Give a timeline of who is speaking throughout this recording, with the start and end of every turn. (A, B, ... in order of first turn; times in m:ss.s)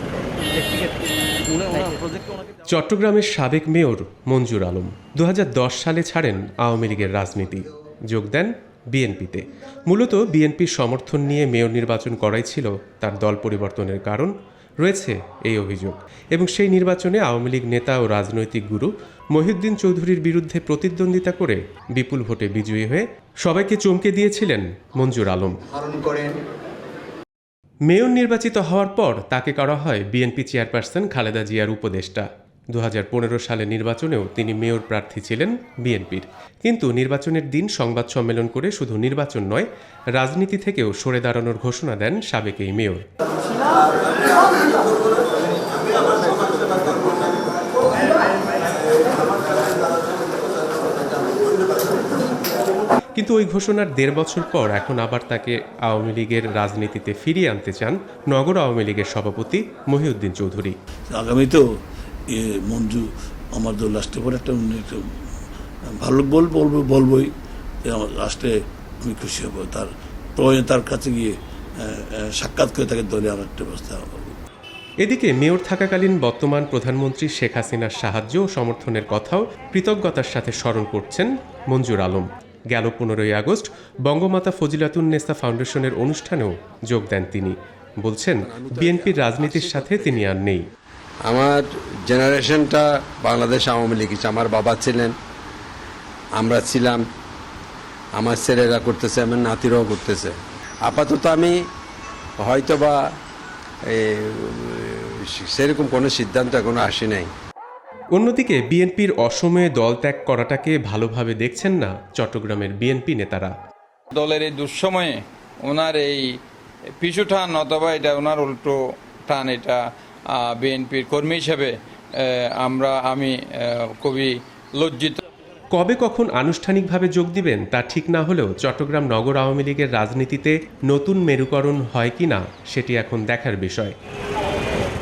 0:00.5-0:00.9 A
0:01.5-0:02.5 A
0:02.7-0:25.6 B
0:25.7-0:26.4 A
0:27.9-0:43.0 B
0:45.5-0:47.1 A
0:53.2-1:00.7 B
1:01.1-1:01.6 C
1:02.3-1:05.1 C
1:06.0-1:07.3 C
1:07.8-1:14.4 C
1:15.0-1:30.6 B
1:28.4-1:30.2 D
1:31.2-1:35.1 D
1:36.4-1:37.0 D
1:38.2-1:41.6 D
1:42.4-1:43.0 D
1:43.9-1:47.3 D
1:48.2-1:53.5 B
1:54.1-1:56.2 E
1:57.0-1:59.8 E
2:00.4-2:03.3 E
2:04.0-2:05.2 E
2:05.7-2:13.9 B